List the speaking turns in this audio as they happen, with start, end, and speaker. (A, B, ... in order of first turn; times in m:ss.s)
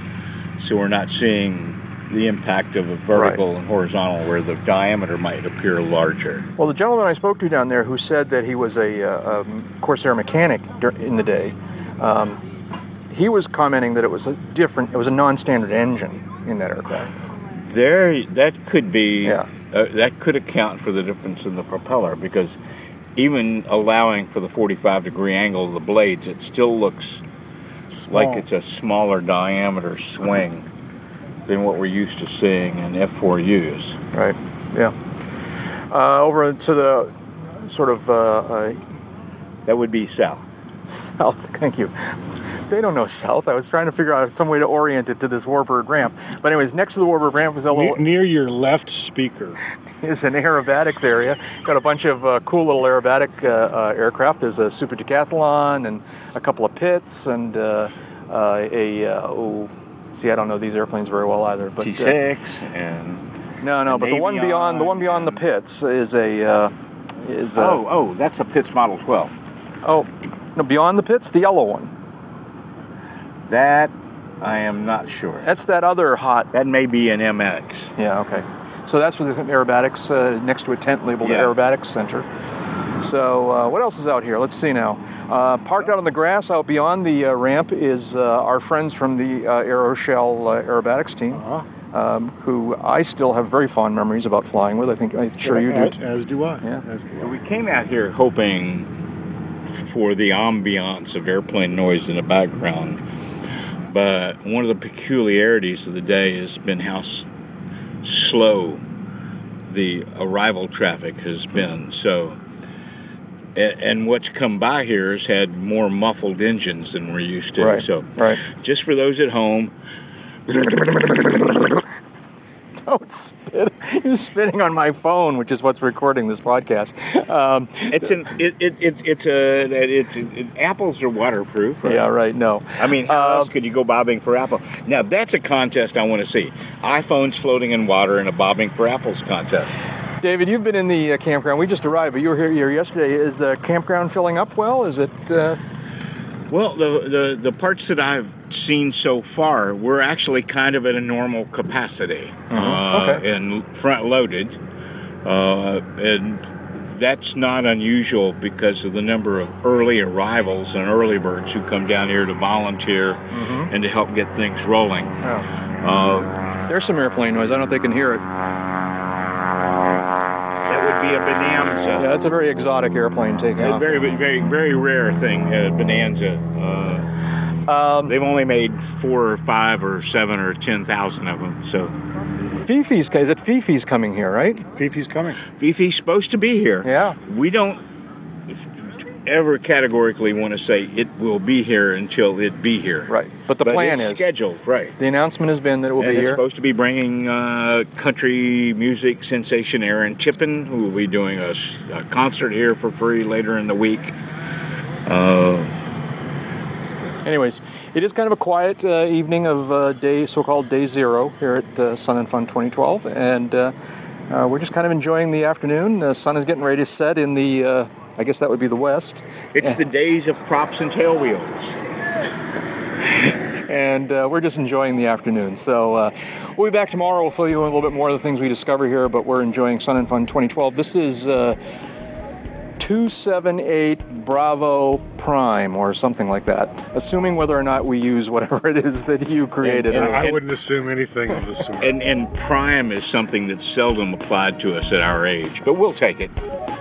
0:00.6-0:06.5 A
0:03.1-0:03.4 B
0:06.6-0:12.4 B
0:13.1-0:17.1 B
0:17.6-0:22.5 A
0:19.2-0:19.5 B
0:23.2-0:27.2 A
0:28.1-0:30.7 A
0:28.1-0:28.4 C
0:31.5-0:34.0 A
0:34.1-0:34.9 B
0:35.9-0:38.8 B
0:39.7-0:40.4 A
0:41.2-0:41.9 B
0:42.7-0:48.0 B
0:47.7-0:49.6 C
0:50.0-1:02.2 B
1:01.8-1:03.2 A
1:03.6-1:07.8 B
1:03.8-1:05.4 A
1:07.5-1:09.3 A
1:09.8-1:11.9 B
1:13.5-1:15.5 A
1:15.4-1:16.5 B
1:16.5-1:17.9 A
1:18.0-1:22.3 B
1:21.2-1:21.5 A
1:23.0-1:36.0 B
1:31.3-1:31.7 C
1:35.4-1:37.3 C
1:37.2-1:38.9 A
1:39.8-1:43.0 A
1:43.9-1:47.3 A
1:48.0-1:48.8 A
1:49.7-1:52.4 A
1:53.6-1:59.7 A
1:57.6-1:58.4 B
2:00.5-2:01.2 A
2:02.8-2:08.1 B
2:07.9-2:12.0 A
2:11.8-2:13.5 B
2:12.8-2:19.7 A
2:20.2-2:25.6 B
2:26.5-2:34.6 A
2:32.5-2:33.2 B
2:35.2-2:45.2 A
2:43.3-2:43.7 B
2:45.8-2:46.3 A
2:46.7-2:48.2 B
2:50.7-2:52.1 A
2:52.0-2:53.9 B
2:53.6-2:57.1 A
2:57.6-2:58.2 B
2:58.1-3:01.9 A
3:02.6-3:04.6 B
3:04.7-3:05.4 C
3:05.6-3:07.8 A
3:06.8-3:07.2 B
3:08.5-3:13.1 A
3:13.1-3:14.2 B
3:13.6-3:15.0 A
3:15.0-3:16.4 B
3:16.0-3:24.2 A
3:25.1-3:25.8 A
3:27.2-3:33.7 B
3:34.3-3:39.8 B
3:39.5-3:41.8 A
3:43.6-3:51.6 B
3:52.8-4:00.4 B
3:59.6-4:00.4 A
3:59.9-4:02.0 C
4:01.8-4:06.3 A